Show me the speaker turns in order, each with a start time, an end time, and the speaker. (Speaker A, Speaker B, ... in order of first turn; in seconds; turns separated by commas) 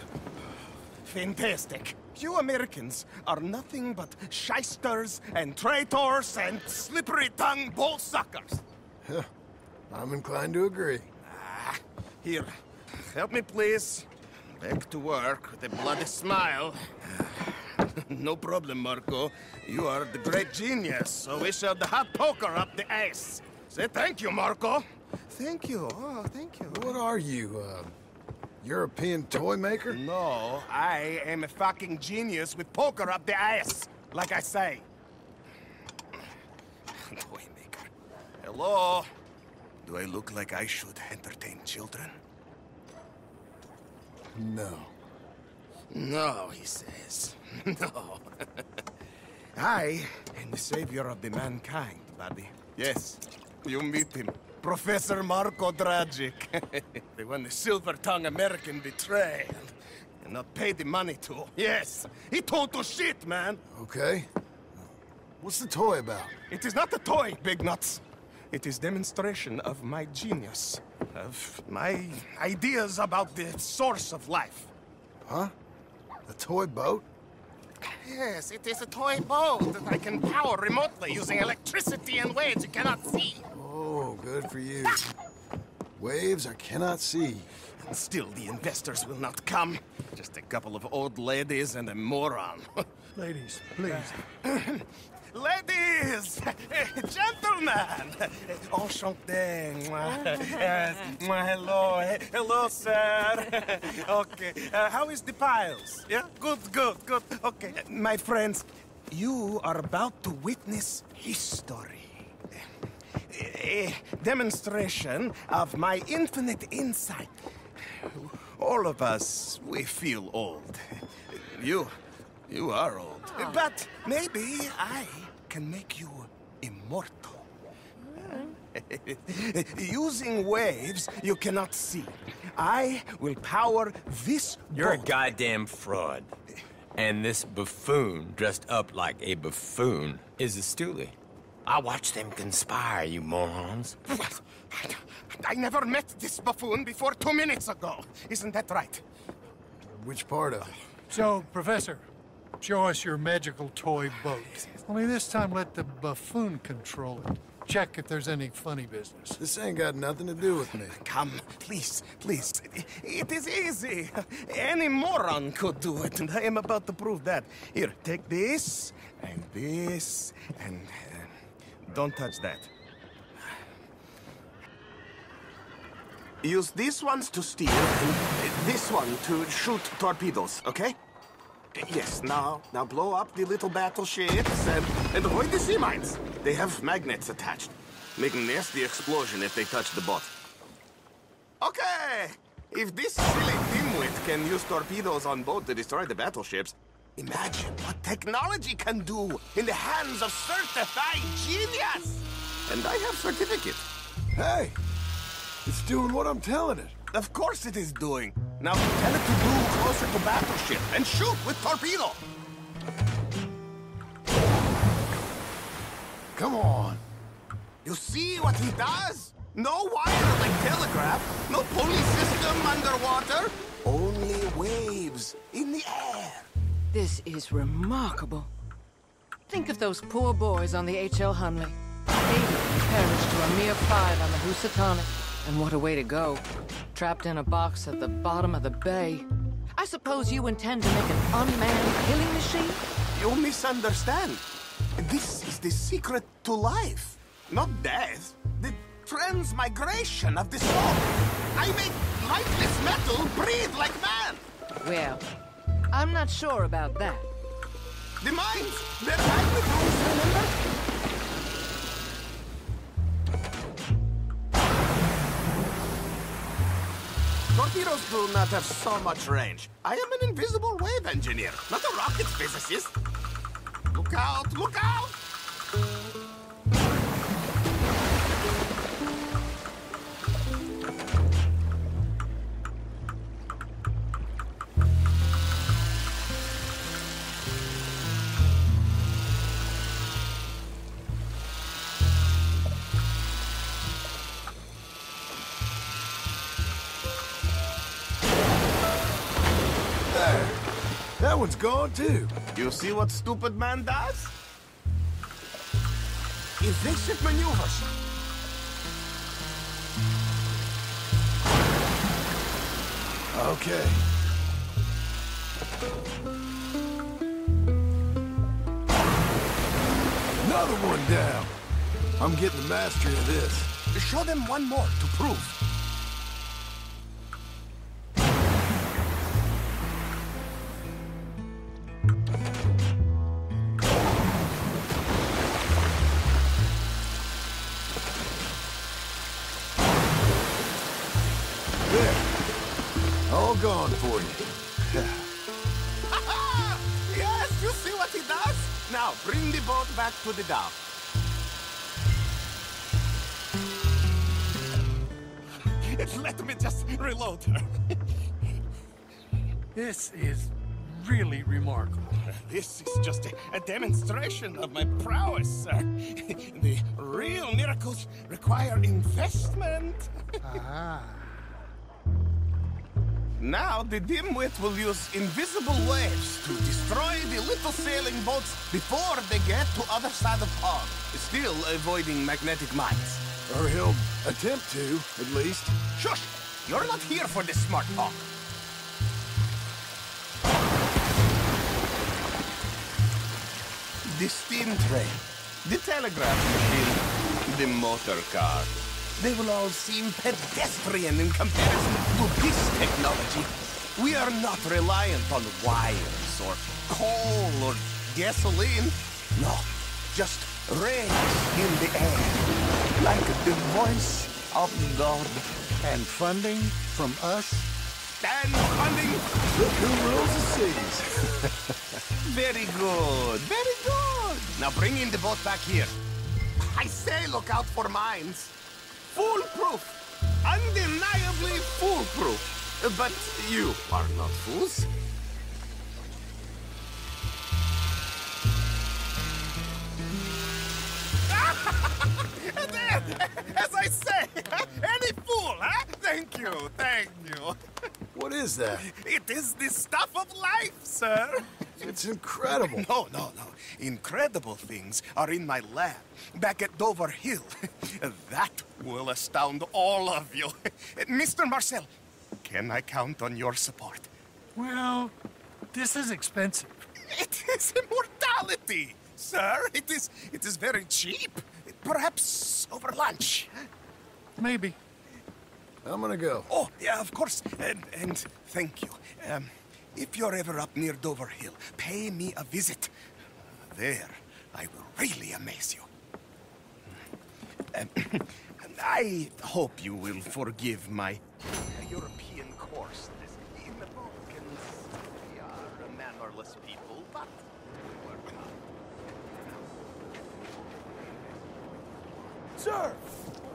Speaker A: 1.0-8.6, Speaker B: 9.9-11.1, Speaker A: 11.2-12.5, Speaker A: 13.1-27.0, Speaker B: 26.7-27.9, Speaker B: 28.6-30.0, Speaker A: 29.9-34.9, Speaker A: 36.9-37.9, Speaker A: 38.4-39.1, Speaker A: 39.8-42.1, Speaker B: 44.3-44.9, Speaker A: 45.9-48.2, Speaker A: 49.5-63.6, Speaker B: 63.7-64.3, Speaker B: 65.4-66.3, Speaker A: 66.5-74.7, Speaker B: 75.2-75.5, Speaker B: 76.3-77.0, Speaker A: 78.0-83.5, Speaker B: 83.5-85.1, Speaker B: 86.0-87.5, Speaker A: 87.8-92.7, Speaker C: 93.2-94.2, Speaker A: 93.9-112.3, Speaker A: 113.3-117.3, Speaker A: 117.9-121.9, Speaker A: 122.5-127.5, Speaker A: 128.2-135.2, Speaker D: 134.7-136.3, Speaker D: 136.9-144.0, Speaker A: 144.2-149.0, Speaker B: 149.8-150.7, Speaker C: 151.1-152.1, Speaker C: 152.6-159.4, Speaker B: 159.4-160.9, Speaker A: 160.5-172.7, Speaker A: 176.4-181.0, Speaker A: 181.7-190.3, Speaker A: 191.6-203.8, Speaker B: 204.3-204.8, Speaker B: 205.6-206.9, Speaker A: 207.1-212.2, Speaker B: 216.3-217.0, Speaker A: 217.8-226.5, Speaker E: 226.9-228.5, Speaker E: 229.5-242.8, Speaker A: 243.1-244.4, Speaker A: 245.0-254.4, Speaker E: 254.8-255.2, Speaker E: 255.9-257.3, Speaker A: 258.2-260.6, Speaker A: 267.5-272.9, Speaker A: 273.9-275.2, Speaker B: 300.1-300.6, Speaker B: 301.2-302.3, Speaker A: 302.5-304.3, Speaker A: 306.6-307.9, Speaker B: 313.3-314.0, Speaker B: 320.4-321.5, Speaker B: 322.2-323.7, Speaker A: 323.9-325.6, Speaker B: 341.9-342.2, Speaker B: 343.3-345.1, Speaker A: 346.1-350.8, Speaker A: 355.8-357.7, Speaker C: 359.7-362.2, Speaker A: 362.2-370.1, Speaker C: 370.5-371.3, Speaker A: 373.4-383.2, Speaker B: 383.5-385.8, Speaker A: 385.9-388.3, Speaker A: 394.0-415.5, Speaker C: 415.8-417.7, Speaker A: 418.2-419.3, Speaker B: 419.5-421.5, Speaker A: 422.1-425.9, Speaker A: 426.6-428.5, Speaker A: 429.1-434.9, Speaker A: 441.3-447.6, Speaker B: 448.1-448.9, Speaker A: 448.7-451.7, Speaker B: 451.8-452.9, Speaker A: 452.7-461.9, Speaker A: 462.4-464.1, Speaker C: 464.6-465.1, Speaker C: 465.7-466.7, Speaker A: 467.1-473.5, Speaker C: 474.4-474.8, Speaker B: 475.8-476.5, Speaker A: 476.5-482.9, Speaker A: 483.7-485.9, Speaker A: 487.7-498.5, Speaker B: 502.6-502.9